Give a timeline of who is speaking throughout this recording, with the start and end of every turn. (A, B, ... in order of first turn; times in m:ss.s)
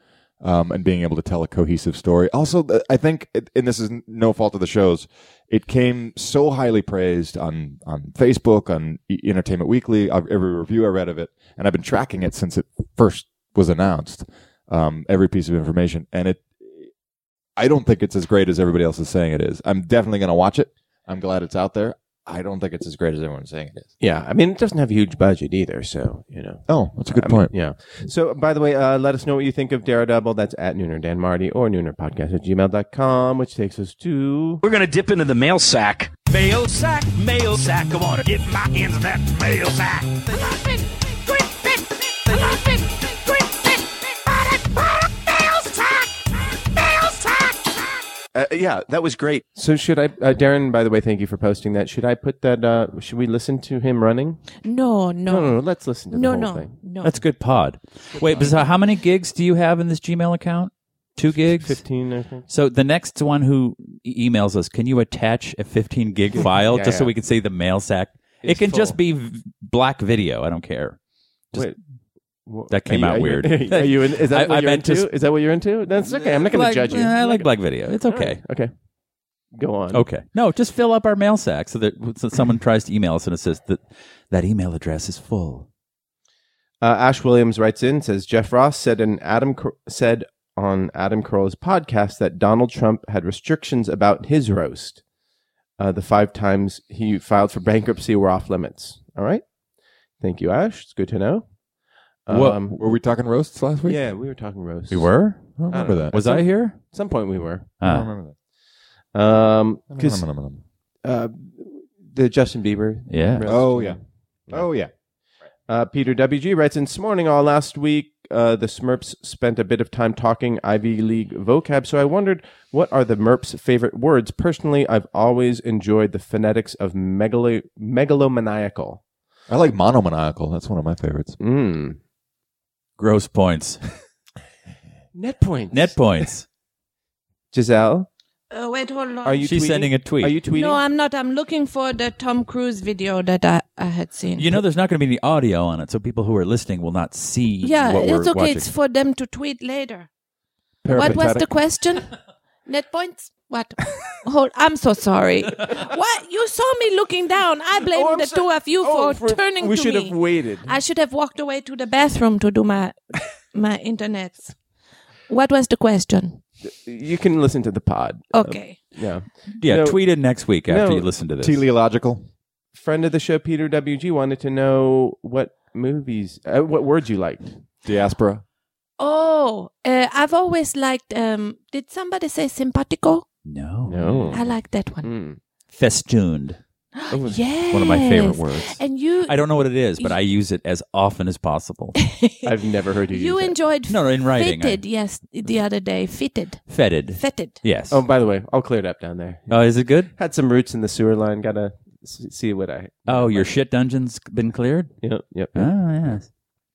0:00.4-0:16.9 A
0:17.6-0:23.9 A
0:24.0-0:34.6 B
0:26.7-0:27.5 A
0:34.6-0:40.5 C
0:48.3-0:54.4 B
0:54.6-0:57.2 D
0:55.3-0:56.8 B
0:57.0-1:01.8 E
0:58.1-0:58.7 B
1:01.4-1:02.5 B
1:02.5-1:11.0 E
1:06.4-1:07.1 B
1:08.4-1:09.0 B
1:12.5-1:18.7 B
1:12.7-1:15.1 E
1:16.0-1:18.4 E
1:19.5-1:20.1 B
1:19.9-1:25.7 E
1:26.8-1:35.0 B
1:35.8-1:39.4 B
1:40.2-1:41.5 B
1:42.3-1:42.8 B
1:42.3-1:42.6 E
1:42.6-1:44.1 A
1:43.8-1:47.7 B
1:44.9-1:46.9 E
1:45.6-1:46.2 A
1:47.8-1:48.1 E
1:47.8-1:48.4 A
1:49.1-1:50.3 B
1:49.9-1:50.6 A
1:51.0-1:54.7 B
1:53.1-1:53.5 E
1:53.4-1:54.9 A
1:55.7-2:09.0 B
2:09.5-2:11.4 A
2:11.4-2:12.0 B
2:13.0-2:13.8 E
2:15.1-2:16.0 B
2:15.7-2:16.5 E
2:17.5-2:18.1 B
2:18.5-2:19.5 D
2:19.2-2:20.8 B
2:19.4-2:20.4 E
2:20.5-2:24.5 D
2:24.4-2:28.7 E
2:27.6-2:30.1 D
2:30.8-2:31.5 A
2:30.9-2:32.1 D
2:32.7-2:43.0 D
2:37.9-2:40.7 B
2:43.5-2:44.6 D
2:45.3-2:46.4 D
2:46.6-2:50.0 B
2:48.3-2:48.8 D
2:49.6-2:51.6 E
2:50.7-2:51.1 B
2:51.4-2:52.2 A
2:52.7-2:57.5 B
2:57.8-2:58.4 A
2:59.0-3:03.2 D
3:03.4-3:04.4 E
3:03.9-3:04.4 B
3:04.3-3:05.1 D
3:05.0-3:05.4 B
3:05.7-3:06.6 E
3:07.0-3:09.4 D
3:07.1-3:07.4 B
3:07.7-3:12.0 E
3:12.0-3:12.5 D
3:12.4-3:13.6 B
3:13.1-3:17.6 D
3:13.9-3:14.8 E
3:16.7-3:18.0 E
3:17.9-3:23.5 B
3:19.5-3:20.1 E
3:23.1-3:26.3 E
3:25.0-3:25.7 B